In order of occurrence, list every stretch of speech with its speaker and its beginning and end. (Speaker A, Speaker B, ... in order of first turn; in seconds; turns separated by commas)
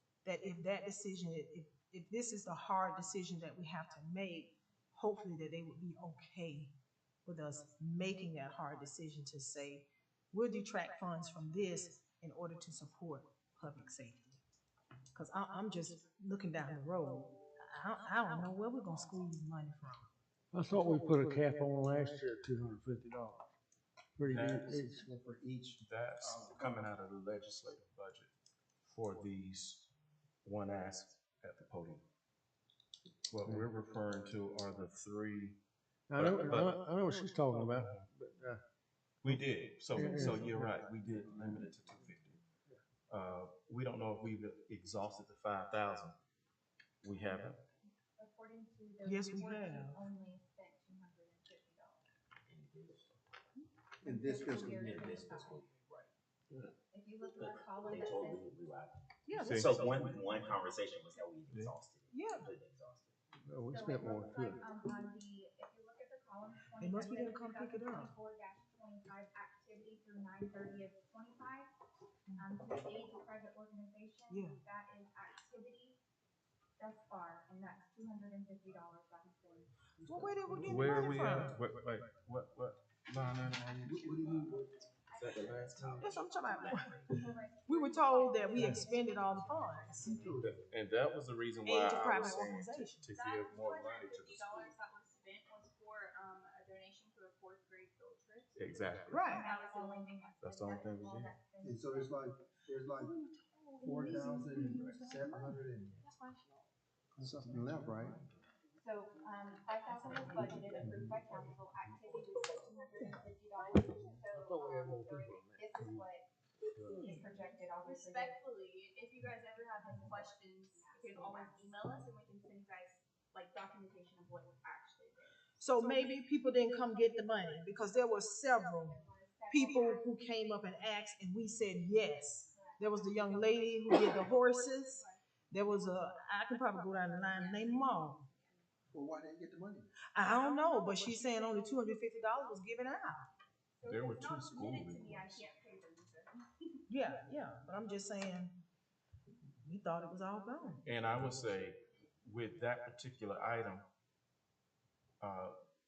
Speaker A: 0.2-6.7, Speaker A: 7.3-14.4, Speaker A: 15.1-20.1, Speaker B: 20.5-23.4, Speaker B: 24.2-25.0, Speaker C: 24.3-24.7, Speaker D: 24.5-26.8, Speaker C: 25.8-28.3, Speaker C: 28.9-29.9, Speaker C: 30.4-32.0, Speaker C: 33.3-35.6, Speaker B: 36.1-38.6, Speaker C: 36.2-36.8, Speaker C: 37.5-38.0, Speaker C: 39.2-42.4, Speaker B: 39.9-40.7, Speaker C: 43.1-46.2, Speaker C: 47.0-47.6, Speaker E: 48.2-52.0, Speaker A: 49.1-50.0, Speaker F: 52.5-53.1, Speaker D: 54.0-54.9, Speaker E: 54.0-55.7, Speaker F: 54.5-56.1, Speaker E: 56.9-58.6, Speaker F: 57.3-63.2, Speaker A: 59.3-60.2, Speaker C: 59.4-60.6, Speaker C: 61.5-61.8, Speaker A: 62.1-62.5, Speaker B: 63.5-64.6, Speaker E: 63.7-71.7, Speaker F: 64.0-64.4, Speaker A: 66.8-68.1, Speaker E: 72.4-76.0, Speaker A: 74.3-74.6, Speaker E: 76.8-79.7, Speaker A: 80.0-81.6, Speaker C: 80.6-84.5, Speaker D: 83.8-84.7, Speaker E: 85.1-90.4, Speaker C: 85.1-86.1, Speaker F: 85.3-87.2, Speaker A: 86.0-87.1, Speaker A: 87.7-90.2, Speaker D: 90.1-90.5, Speaker C: 90.4-94.8, Speaker A: 91.7-93.1, Speaker G: 93.1-100.3, Speaker C: 98.5-99.3, Speaker A: 99.1-99.5, Speaker E: 99.2-102.2, Speaker C: 100.4-101.3, Speaker D: 101.6-103.2, Speaker A: 103.0-106.7, Speaker D: 103.8-106.0, Speaker E: 104.5-104.9, Speaker D: 107.2-108.2, Speaker E: 108.8-116.3, Speaker E: 116.9-118.4, Speaker G: 117.8-126.0, Speaker E: 119.6-122.0, Speaker A: 125.6-129.0, Speaker E: 125.7-130.9, Speaker A: 129.5-138.2, Speaker E: 132.5-135.2, Speaker G: 134.0-134.6, Speaker E: 137.1-138.6, Speaker D: 138.9-139.9, Speaker A: 140.2-143.3, Speaker E: 143.8-146.8, Speaker C: 143.9-145.4, Speaker A: 146.9-148.6, Speaker A: 149.6-150.8, Speaker C: 150.8-153.9, Speaker C: 155.2-155.6